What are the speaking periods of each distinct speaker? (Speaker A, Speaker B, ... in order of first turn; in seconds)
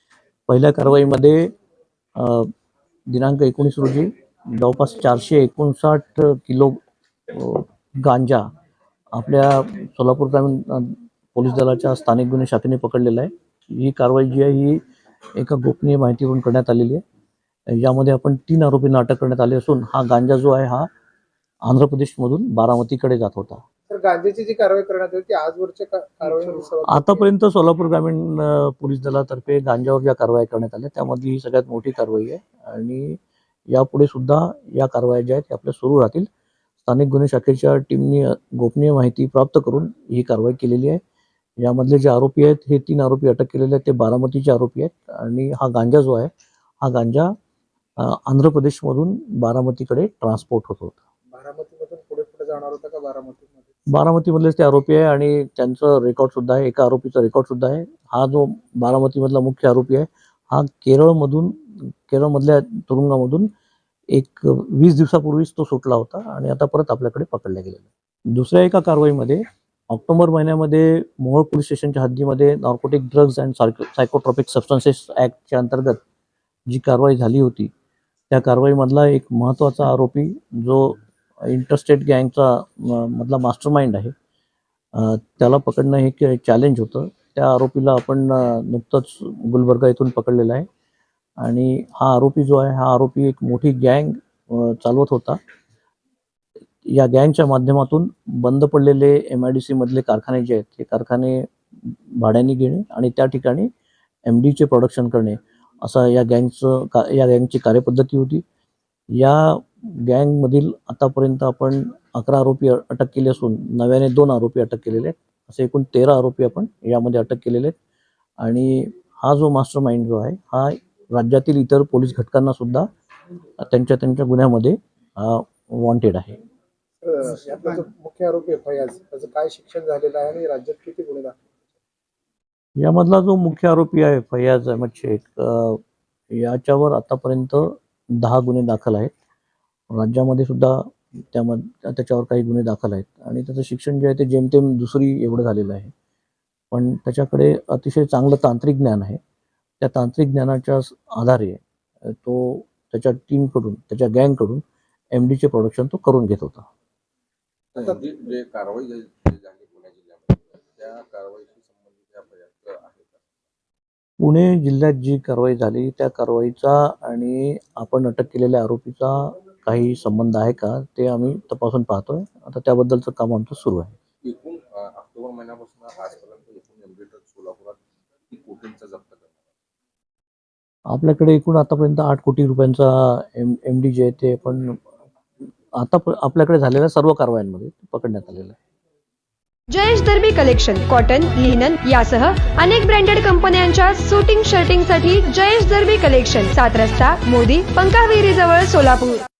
Speaker A: 0.5-1.5, 2.1-2.5, 3.1-6.8, 7.3-8.5, 9.1-14.8, 15.3-17.0, 17.7-20.9, 21.6-23.6, 26.9-33.2, 33.7-36.3, 36.8-41.0, 41.6-46.3, 46.8-47.3, 48.0-51.0, 53.9-63.5, 64.1-76.0, 76.7-77.7, 78.3-84.1, 85.0-90.7, 91.4-95.4, 96.9-103.7, 104.2-108.4, 109.2-117.7, 118.4-122.9, 123.6-126.4, 132.8-135.8, 136.3-139.1, 139.9-145.9, 146.7-149.2, 149.8-154.6, 155.1-156.7, 164.2-173.9, 180.9-184.8, 185.8-188.6
Speaker B: 23.9-27.2, 51.3-53.7, 127.0-131.8
Speaker C: 157.7-163.2, 174.2-179.5
Speaker D: 189.7-199.2